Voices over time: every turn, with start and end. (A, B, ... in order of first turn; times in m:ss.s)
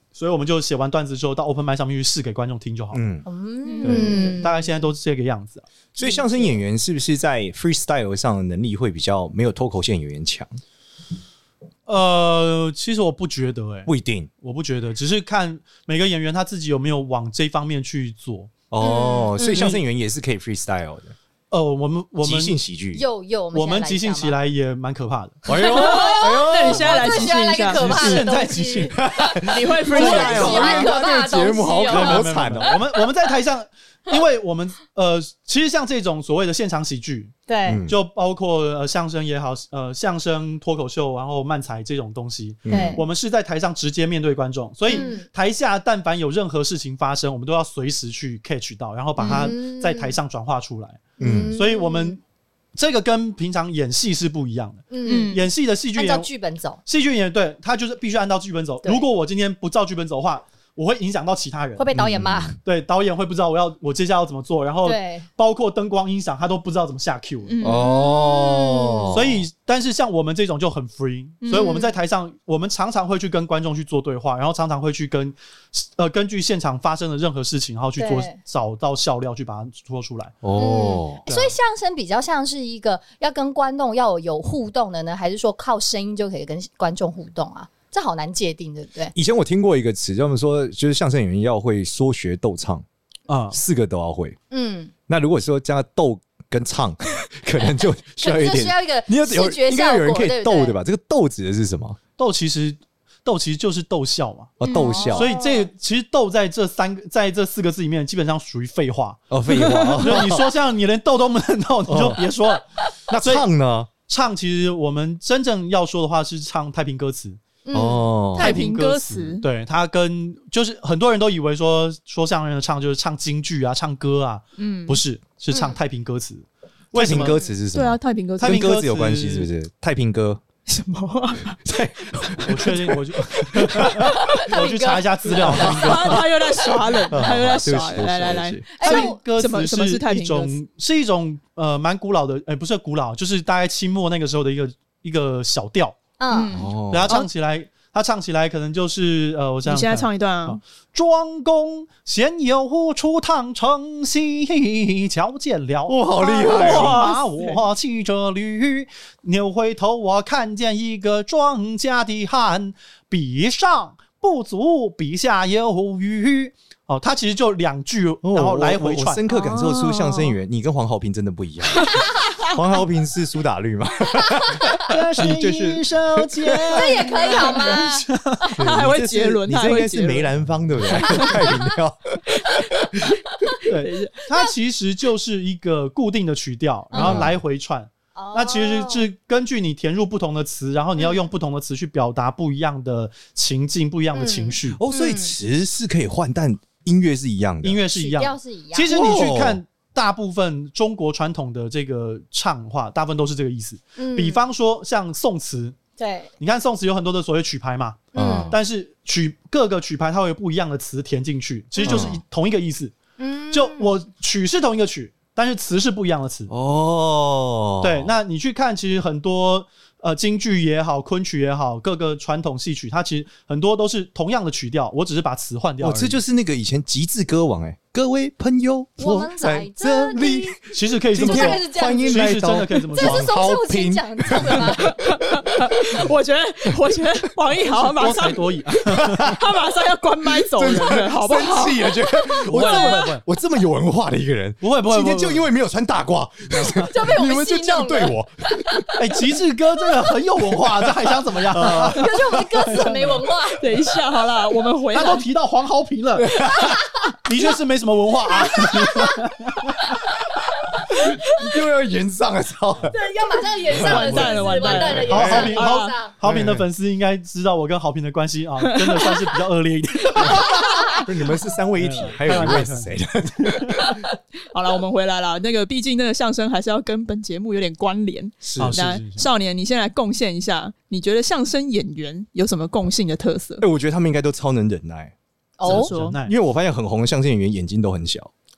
0:00.1-0:03.0 A
0:02.9-0:03.2 B
0:03.2-0:04.5 C
0:03.6-0:04.4 D
0:03.8-0:05.6 A
0:05.9-0:10.6 B
0:06.0-0:06.3 C
0:11.9-0:13.9 A
0:13.9-0:14.3 B
0:14.4-0:18.5 A
0:18.7-0:21.1 B
0:18.8-0:19.7 C
0:19.5-0:19.8 A
0:21.5-0:22.6 A
0:22.2-0:23.0 B
0:22.9-0:24.4 C
0:23.5-0:25.4 A
0:25.4-0:28.3 B
0:25.5-0:29.0 C
0:25.6-0:28.2 D
0:27.7-0:29.0 A
0:28.9-0:32.8 B
0:29.4-0:30.9 D
0:29.9-0:32.8 C
0:29.9-0:30.8 A
0:31.8-0:37.4 A
0:37.5-0:37.8 C
0:37.6-0:38.0 B
0:37.9-0:52.2 A
0:42.6-0:43.0 B
0:42.7-0:43.0 C
0:44.9-0:45.3 C
0:44.9-0:45.1 D
0:49.2-0:50.2 C
0:49.2-0:49.5 D
0:51.2-0:51.6 B
0:51.2-0:52.2 C
0:52.8-0:56.3 A
0:54.9-0:55.4 C
0:55.0-0:55.4 D
0:56.0-0:56.8 C
0:56.9-1:01.9 A
1:01.8-1:02.6 C
1:01.9-1:02.5 B
1:02.6-1:07.5 A
1:04.8-1:05.2 C
1:07.5-1:07.9 D
1:07.6-1:09.4 B
1:07.6-1:09.2 C
1:09.1-1:20.4 A
1:11.5-1:11.9 C
1:18.0-1:18.3 C
1:20.4-1:21.2 B
1:20.6-1:29.1 C
1:21.2-1:21.6 A
1:29.1-1:32.8 B
1:33.3-1:33.6 A
1:33.5-1:34.4 B
1:34.5-1:34.9 C
1:35.1-1:42.0 B
1:38.2-1:40.8 C
1:42.2-1:44.5 A
1:44.6-1:45.3 B
1:44.6-1:45.2 D
1:44.7-1:45.7 C
1:45.1-1:49.2 A
1:49.3-1:50.5 B
1:49.5-1:50.2 D
1:50.0-1:52.6 A
1:51.9-1:52.2 B
1:53.1-1:53.9 B
1:53.2-1:53.5 A
1:54.1-1:57.4 A
1:57.6-1:58.1 C
1:57.7-1:58.6 B
1:58.3-2:07.4 A
1:58.4-1:59.4 D
2:04.6-2:05.0 D
2:05.5-2:05.8 C
2:06.9-2:10.4 B
2:07.2-2:07.5 C
2:07.7-2:08.7 D
2:08.4-2:09.5 A
2:10.7-2:11.6 D
2:11.6-2:14.1 B
2:12.1-2:12.5 D
2:12.4-2:16.3 A
2:14.2-2:16.2 C
2:15.4-2:15.8 B
2:15.6-2:20.6 D
2:17.1-2:18.6 B
2:18.8-2:19.2 C
2:18.8-2:26.0 A
2:26.2-2:26.6 C
2:26.3-2:27.3 D
2:26.5-2:27.1 B
2:26.8-2:49.2 A
2:29.6-2:30.6 D
2:35.9-2:37.0 B
2:36.2-2:36.6 C
2:36.4-2:37.6 D
2:48.2-2:56.8 B
2:49.3-2:50.3 D
2:54.4-2:54.7 C
2:54.9-2:58.6 A
2:56.7-2:58.5 C
2:58.6-3:02.7 B
2:58.6-3:00.3 D
3:00.9-3:01.4 D
3:01.2-3:01.7 C
3:03.6-3:14.8 A
3:03.8-3:04.1 D
3:06.9-3:07.3 C
3:07.0-3:07.4 B
3:08.2-3:09.1 C
3:14.1-3:15.3 C
3:14.7-3:17.8 B
3:17.6-3:25.8 A
3:17.9-3:19.2 C
3:18.9-3:19.6 B
3:24.0-3:24.4 C
3:26.0-3:26.3 C
3:26.4-3:33.0 A
3:28.1-3:28.6 C
3:28.1-3:28.6 B
3:31.8-3:32.2 C
3:31.8-3:32.2 B
3:33.2-3:33.9 C
3:33.5-3:36.5 A
3:36.5-3:38.1 B
3:37.8-3:46.2 A
3:45.8-3:56.0 B
3:49.0-3:50.6 C
3:50.7-3:53.3 A
3:51.2-3:52.4 C
3:52.9-3:55.0 C
3:54.8-4:03.0 D
3:57.7-3:59.4 A
3:59.0-3:59.4 B
4:00.4-4:08.9 B
4:02.4-4:03.2 A
4:04.6-4:05.5 A
4:06.6-4:06.9 A
4:06.8-4:08.1 C
4:09.0-4:13.2 A
4:11.4-4:12.3 B
4:11.7-4:13.7 C
4:13.5-4:15.2 D
4:14.9-4:16.6 A
4:16.2-4:16.8 B
4:16.5-4:17.2 C
4:17.2-4:19.9 A
4:18.2-4:19.3 C
4:21.0-4:23.0 B
4:22.9-4:26.2 C
4:23.7-4:31.0 A
4:23.7-4:25.9 D
4:24.7-4:25.6 B
4:26.2-4:26.6 B
4:28.6-4:29.2 D
4:30.2-4:34.0 B
4:30.5-4:31.0 C
4:31.8-4:34.0 A
4:34.5-4:43.6 D
4:38.4-4:38.8 B
4:38.6-4:39.3 A
4:43.6-4:45.1 B
4:45.6-4:45.9 C
4:45.6-4:46.2 D
4:45.6-4:46.3 A
4:46.1-4:48.3 B